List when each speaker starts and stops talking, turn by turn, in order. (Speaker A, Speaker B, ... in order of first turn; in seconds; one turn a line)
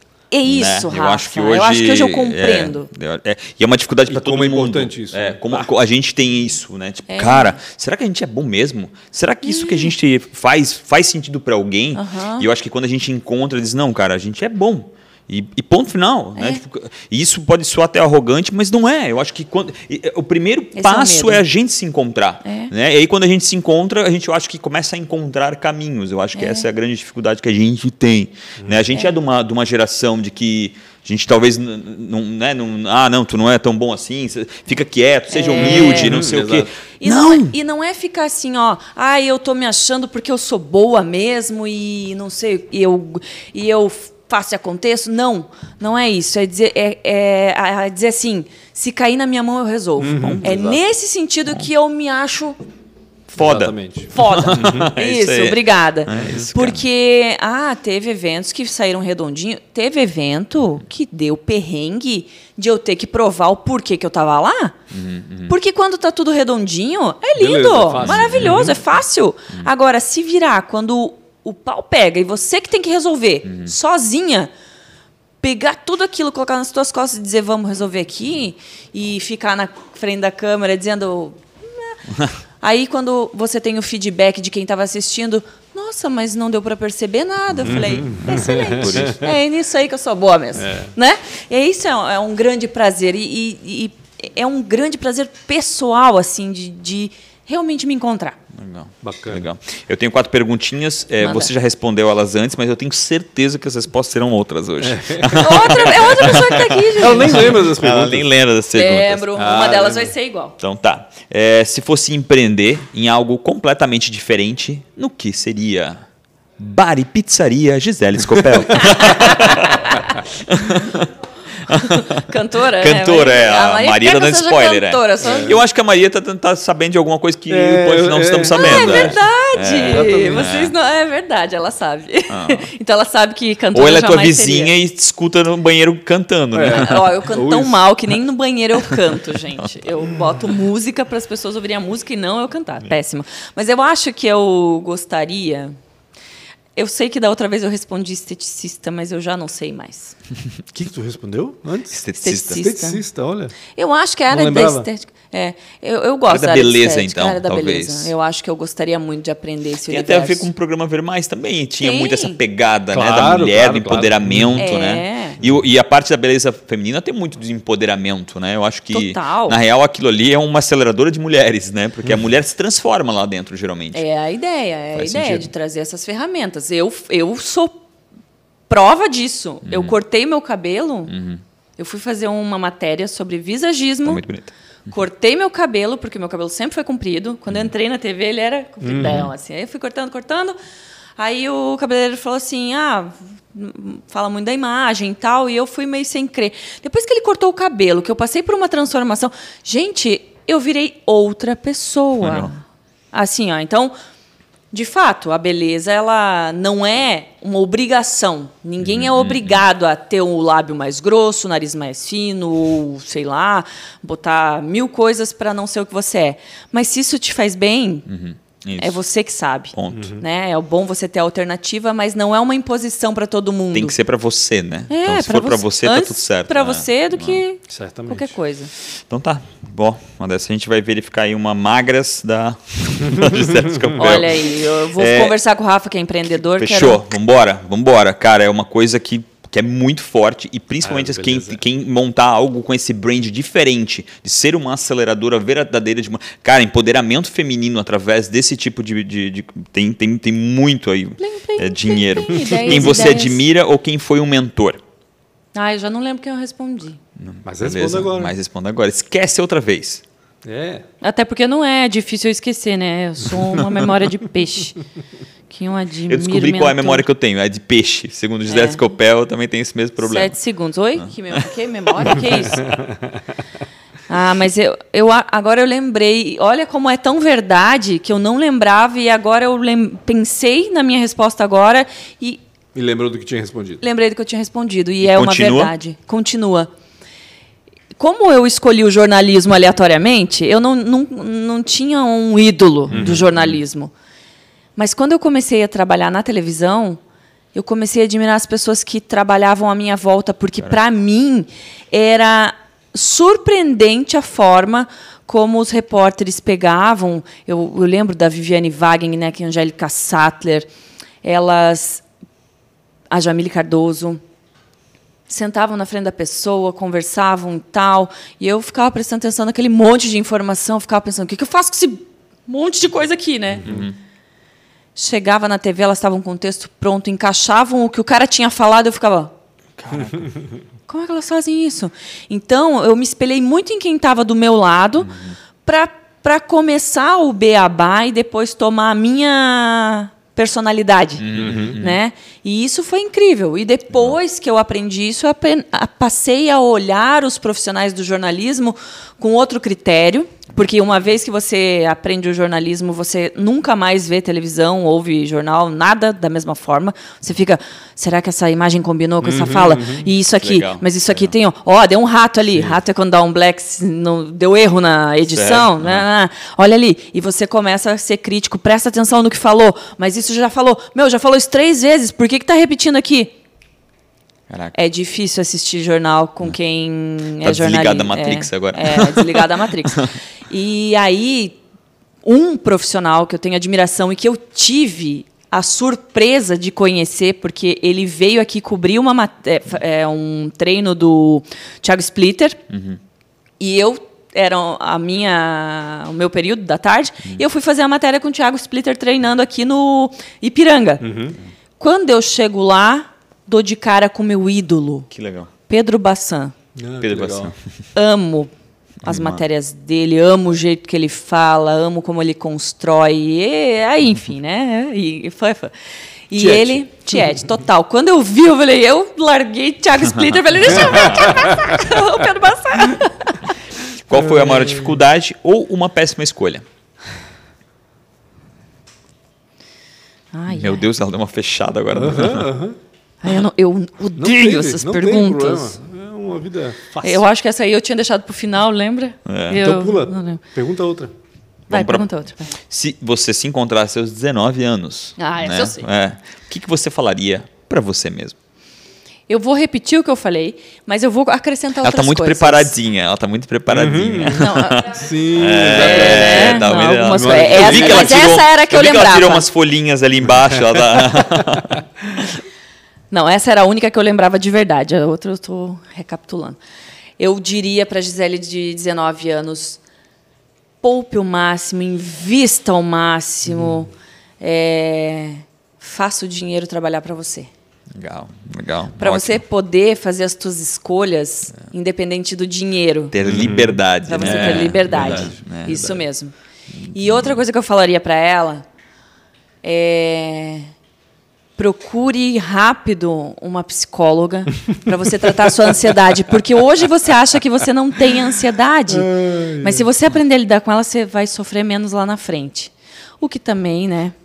Speaker A: 0.3-2.9
Speaker B: 0.4-37.5
Speaker C: 4.1-5.7
Speaker A: 7.1-7.6
Speaker A: 9.4-9.9
Speaker A: 11.9-12.5
Speaker A: 16.3-16.6
Speaker A: 20.7-21.4
Speaker A: 22.4-22.7
Speaker A: 26.3-26.7
Speaker A: 35.3-36.2
Speaker C: 35.6-36.7
Speaker A: 37.0-52.5
Speaker C: 50.0-50.8
Speaker B: 50.1-50.6
Speaker B: 53.3-56.8
Speaker C: 53.4-54.9
Speaker A: 54.1-64.7
Speaker C: 56.2-56.4
Speaker B: 64.9-65.5
Speaker A: 65.5-74.5
Speaker C: 67.3-68.7
Speaker B: 67.9-68.8
Speaker B: 73.5-73.7
Speaker A: 75.4-82.0
Speaker A: 82.6-98.4
Speaker B: 87.5-89.3
Speaker C: 87.6-89.2
Speaker C: 90.5-90.9
Speaker B: 98.5-109.2
Speaker C: 99.0-99.5
Speaker A: 101.2-101.5
Speaker C: 104.8-105.7
Speaker A: 105.3-107.6
Speaker C: 107.0-108.3
Speaker A: 108.7-110.5
Speaker C: 109.3-110.1
Speaker B: 110.6-116.0
Speaker B: 116.6-121.1
Speaker A: 118.7-120.2
Speaker B: 121.6-122.2
Speaker A: 121.7-125.6
Speaker B: 122.8-130.7
Speaker C: 125.2-125.6
Speaker C: 127.5-129.2
Speaker A: 128.5-134.7
Speaker C: 129.8-130.5
Speaker B: 132.3-132.7
Speaker B: 133.7-137.1
Speaker C: 136.5-137.8
Speaker A: 136.7-145.8
Speaker A: 146.7-150.2
Speaker C: 150.7-152.0
Speaker B: 151.9-152.6
Speaker A: 152.2-153.0
Speaker C: 152.5-153.6
Speaker A: 153.7-160.5
Speaker C: 154.3-154.9
Speaker B: 156.3-158.1
Speaker B: 159.9-174.0
Speaker A: 161.8-162.4
Speaker C: 162.9-164.7
Speaker A: 164.6-165.4
Speaker A: 168.9-169.6
Speaker A: 173.9-177.7
Speaker B: 174.9-175.5
Speaker A: 178.7-181.1
Speaker B: 179.7-179.9
Speaker B: 181.1-181.4
Speaker A: 181.8-184.2
Speaker B: 184.1-184.5
Speaker A: 184.9-190.6
Speaker C: 188.8-189.3
Speaker B: 188.9-189.3
Speaker A: 191.2-202.6
Speaker B: 202.2-202.5
Speaker A: 203.1-203.9
Speaker A: 204.7-218.1
Speaker B: 208.8-209.6
Speaker B: 218.1-219.0
Speaker A: 218.8-223.9
Speaker B: 219.7-220.2
Speaker C: 219.9-220.2
Speaker B: 223.7-227.4
Speaker A: 224.9-228.7
Speaker C: 227.7-228.3
Speaker B: 228.9-235.3
Speaker A: 234.0-237.0
Speaker B: 236.5-254.8
Speaker C: 240.8-241.6
Speaker A: 251.2-253.4
Speaker A: 255.5-257.0
Speaker B: 257.2-260.0
Speaker C: 257.4-258.3
Speaker C: 260.4-260.8
Speaker A: 261.0-264.8
Speaker A: 265.5-267.0
Speaker B: 266.1-270.4
Speaker A: 268.5-268.8
Speaker A: 270.0-272.7
Speaker B: 271.0-271.4
Speaker C: 272.6-273.1
Speaker A: 274.1-282.4
Speaker C: 282.7-283.8
Speaker A: 283.8-286.7
Speaker B: 285.0-285.7
Speaker A: 288.0-293.9
Speaker B: 292.9-293.6
Speaker C: 292.9-293.2
Speaker A: 294.8-297.0
Speaker A: 297.5-310.7
Speaker A: 311.2-312.0
Speaker A: 313.1-314.2
Speaker A: 315.3-323.7
Speaker B: 323.6-323.9
Speaker A: 324.9-329.3
Speaker B: 329.8-330.3
Speaker A: 330.9-335.1
Speaker B: 335.1-335.4
Speaker A: 335.6-373.3
Speaker B: 341.2-342.0
Speaker C: 341.4-341.8
Speaker B: 343.9-344.2
Speaker C: 359.2-360.1
Speaker B: 360.2-361.3
Speaker B: 365.3-366.1
Speaker B: 374.5-374.7
Speaker A: 374.7-381.6
Speaker B: 377.4-379.4
Speaker A: 382.2-392.6
Speaker B: 392.7-393.0
Speaker A: 393.6-401.1
Speaker C: 401.0-401.4
Speaker A: 401.8-405.1
Speaker B: 405.1-405.5
Speaker A: 405.7-406.5
Speaker C: 406.8-407.5
Speaker B: 407.0-407.6
Speaker A: 407.9-408.5
Speaker B: 409.0-409.4
Speaker A: 409.0-415.7
Speaker A: 416.3-423.5
Speaker C: 416.4-416.8
Speaker B: 420.1-421.3
Speaker B: 424.1-426.6
Speaker C: 424.1-424.9
Speaker A: 430.3-430.8
Speaker B: 430.5-432.5
Speaker C: 431.9-432.8
Speaker A: 433.2-435.8
Speaker C: 434.2-437.3
Speaker A: 437.0-440.4
Speaker B: 439.2-439.6
Speaker C: 439.5-441.1
Speaker B: 441.7-442.1
Speaker A: 441.7-442.5
Speaker B: 442.6-448.4
Speaker A: 445.2-445.8
Speaker A: 449.3-452.8
Speaker B: 451.8-461.8
Speaker C: 453.7-458.3
Speaker A: 454.2-455.0
Speaker A: 455.6-459.4
Speaker C: 460.5-461.8
Speaker A: 463.1-466.6
Speaker A: 467.2-469.8
Speaker A: 470.8-477.5
Speaker B: 477.9-479.4
Speaker A: 479.0-483.1
Speaker B: 483.1-486.0
Speaker C: 483.2-485.2
Speaker A: 484.0-486.3
Speaker B: 486.8-487.4
Speaker A: 486.9-488.6
Speaker A: 489.6-490.7
Speaker A: 491.6-504.1
Speaker C: 498.9-499.9